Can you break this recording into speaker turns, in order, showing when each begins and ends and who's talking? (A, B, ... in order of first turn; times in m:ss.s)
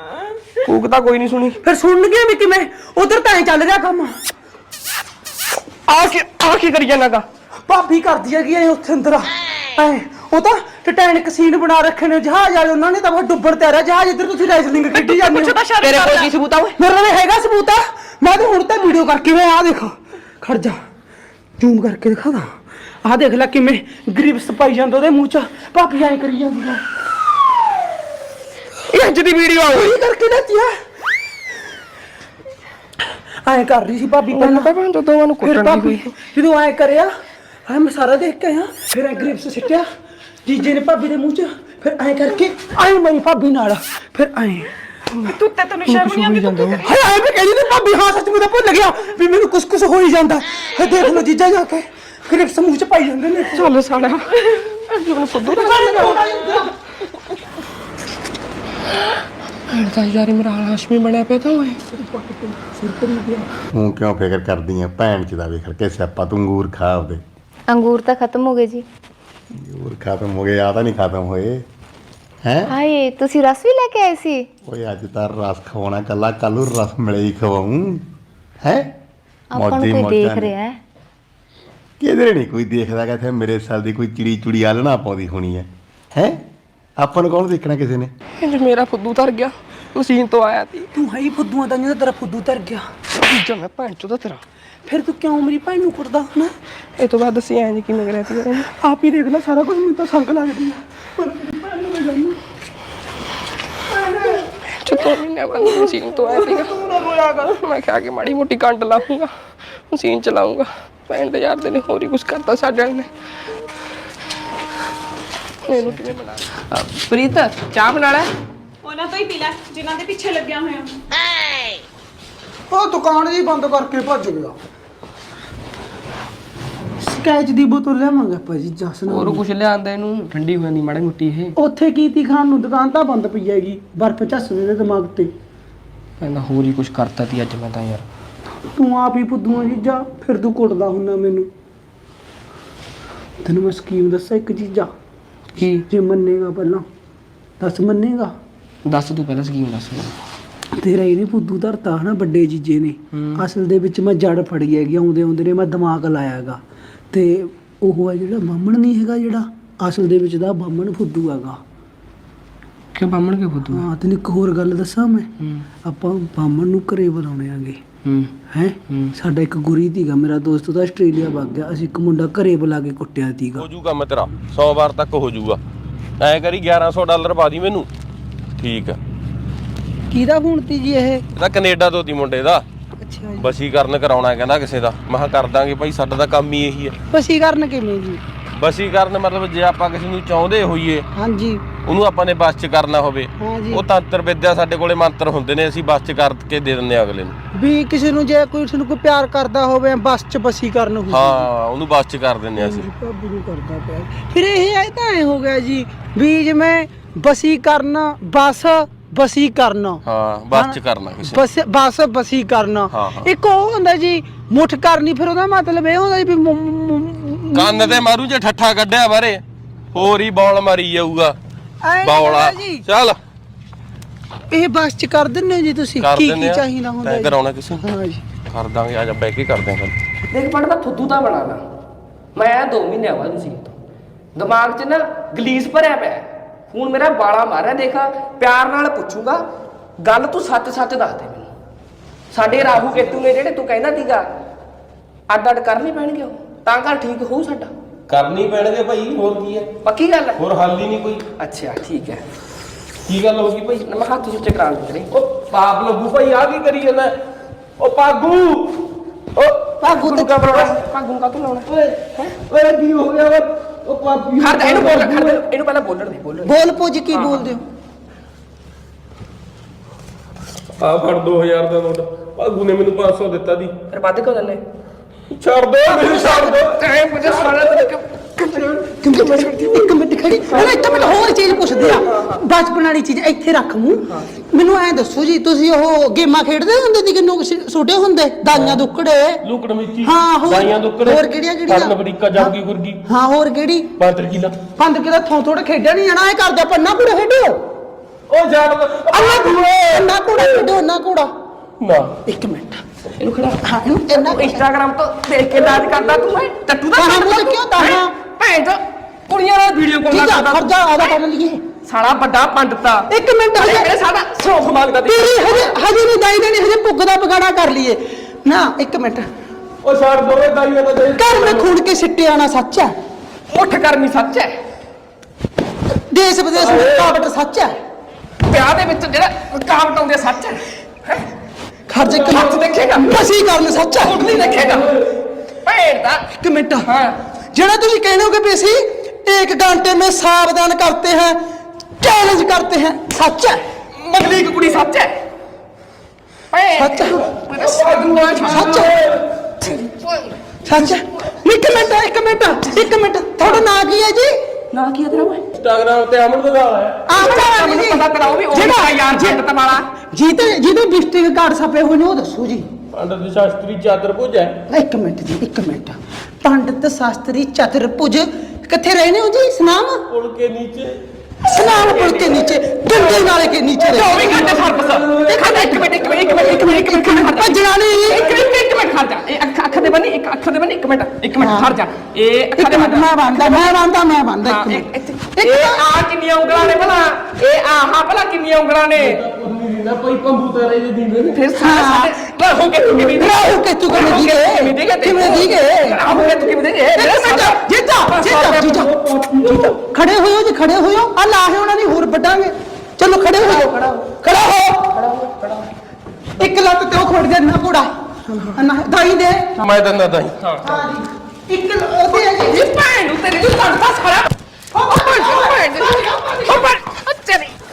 0:00.7-0:01.6 A
0:01.6-0:04.2 B
0:05.9-0:07.3 A
0:07.7-0:15.7 B
0:15.4-0:16.8 A
0:16.7-0:20.8 B
0:21.6-0:22.5 B
0:23.0-0:26.8 B
0:28.9-0:30.7 A
0:33.4-0:34.8 B
0:34.3-0:36.0 A
0:35.4-0:37.1 B
0:37.7-0:39.8 B
0:40.5-0:44.7 B
0:45.2-0:46.8 A
0:46.1-0:53.7 B
0:53.6-0:55.7 A
0:55.4-0:56.7 B
0:59.7-1:01.8 A
1:01.8-1:03.5 B
1:03.7-1:07.2 C
1:07.7-1:08.8 D
1:09.6-1:11.6 C
1:12.4-1:12.8 C
1:12.7-1:14.5 D
1:14.6-1:18.0 C
1:18.6-1:18.9 C
1:19.5-1:20.8 D
1:19.5-1:20.5 C
1:22.0-1:26.4 C
1:27.0-1:28.1 C
1:28.4-1:30.9 A
1:30.9-1:32.8 B
1:33.2-1:34.4 A
1:34.9-1:36.5 B
1:37.0-1:38.7 A
1:38.6-1:42.4 B
1:43.9-1:44.5 B
1:44.6-1:46.8 A
1:46.7-1:47.5 B
1:47.5-1:49.3 A
1:49.9-1:53.1 A
1:55.6-1:58.3 A
1:58.9-2:00.9 E
2:02.7-2:04.6 B
2:07.0-2:09.4 B
2:09.1-2:11.5 A
2:11.6-2:15.3 B
2:16.2-2:18.0 A
2:18.8-2:21.5 B
2:23.4-2:24.9 B
2:25.6-2:25.8 A
2:25.7-2:26.8 B
2:27.6-2:28.3 B
2:28.8-2:30.2 A
2:30.8-2:36.6 B
2:37.1-2:41.6 B
2:43.0-2:43.8 A
2:43.6-2:45.3 B
2:45.8-2:47.8 B
2:48.0-2:48.3 A
2:48.5-2:53.7 B
2:53.6-2:55.6 F
2:56.2-2:57.9 F
2:58.6-2:59.0 F
3:00.1-3:01.2 B
3:01.4-3:02.6 F
3:03.0-3:03.5 B
3:03.4-3:06.9 F
3:07.1-3:08.2 B
3:08.6-3:11.0 F
3:11.1-3:11.6 B
3:11.8-3:17.4 F
3:13.4-3:13.8 B
3:17.5-3:21.5 B
3:21.1-3:22.9 F
3:22.6-3:38.0 B
3:30.0-3:31.4 F
3:32.9-3:33.3 F
3:37.5-3:39.4 F
3:39.9-3:41.4 F
3:41.8-3:42.8 B
3:42.0-3:43.2 F
3:44.5-3:48.2 B
3:46.0-3:47.8 F
3:48.5-3:50.0 F
3:50.3-3:51.6 A
3:52.4-3:53.8 A
3:54.4-3:59.4 A
4:00.0-4:01.5 A
4:02.3-4:04.2 A
4:02.4-4:03.1 F
4:05.3-4:07.7 A
4:08.1-4:09.7 F
4:09.8-4:10.4 A
4:10.4-4:11.3 F
4:11.4-4:12.2 A
4:13.1-4:13.9 F
4:13.8-4:15.1 A
4:15.1-4:17.2 F
4:17.8-4:20.8 F
4:19.8-4:20.3 B
4:20.3-4:22.3 A
4:21.7-4:25.4 F
4:24.4-4:26.5 A
4:26.4-4:27.6 B
4:27.1-4:27.5 A
4:30.8-4:33.8 F
4:33.9-4:34.6 A
4:35.3-4:38.0 F
4:36.0-4:39.8 A
4:38.7-4:39.0 F
4:38.7-4:49.4 B
4:39.6-4:39.9 F
4:40.5-4:41.9 F
4:42.0-4:42.4 A
4:48.5-4:48.8 F
4:49.4-4:53.0 F
4:50.0-4:53.9 B
4:54.0-4:54.6 F
4:54.8-4:57.6 B
4:58.3-5:00.5 F
4:59.1-5:01.3 B
5:01.8-5:02.1 F
5:02.3-5:02.8 B
5:03.2-5:11.1 A
5:03.6-5:04.6 B
5:05.6-5:06.2 F
5:07.0-5:08.2 B
5:10.1-5:11.6 B
5:11.8-5:15.8 A
5:13.1-5:13.9 B
5:15.1-5:19.3 B
5:19.8-5:21.7 F
5:21.1-5:22.9 B
5:23.5-5:24.6 A
5:26.1-5:27.7 B
5:26.6-5:27.0 F
5:28.4-5:31.3 A
5:31.9-5:34.6 B
5:32.0-5:33.1 A
5:34.0-5:34.9 A
5:34.3-5:35.0 F
5:35.6-5:36.2 A
5:36.3-5:36.9 B
5:36.8-5:37.2 A
5:37.5-5:41.4 B
5:42.0-5:43.6 B
5:44.0-5:45.2 A
5:46.5-5:48.5 A
5:46.8-5:47.3 B
5:47.3-5:49.5 F
5:48.4-5:49.0 B
5:49.7-5:50.3 A
5:50.6-5:54.4 B
5:54.7-5:55.4 A
5:55.6-5:57.2 F
5:57.1-5:59.4 B
5:57.2-5:59.9 A
6:00.0-6:02.7 B
6:02.9-6:04.6 F
6:04.7-6:10.0 B
6:10.1-6:11.0 F
6:11.4-6:14.6 B
6:11.7-6:12.0 F
6:13.8-6:16.7 F
6:13.9-6:17.6 A
6:15.2-6:15.9 B
6:16.4-6:18.3 B
6:18.1-6:23.8 A
6:18.3-6:18.5 F
6:21.4-6:21.7 B
6:22.6-6:25.9 B
6:24.4-6:29.2 A
6:29.0-6:31.4 F
6:31.3-6:38.7 A
6:31.6-6:32.3 B
6:33.1-6:36.2 B
6:36.2-6:36.5 F
6:36.9-6:38.9 B
6:38.3-6:39.8 F
6:39.8-6:44.9 B
6:43.4-6:44.1 A
6:44.9-6:45.7 A
6:46.4-6:47.9 B
6:48.5-6:49.5 B
6:49.6-6:50.6 F
6:50.6-6:52.7 B
6:52.1-6:54.3 A
6:54.7-6:56.7 B
6:54.9-6:57.6 A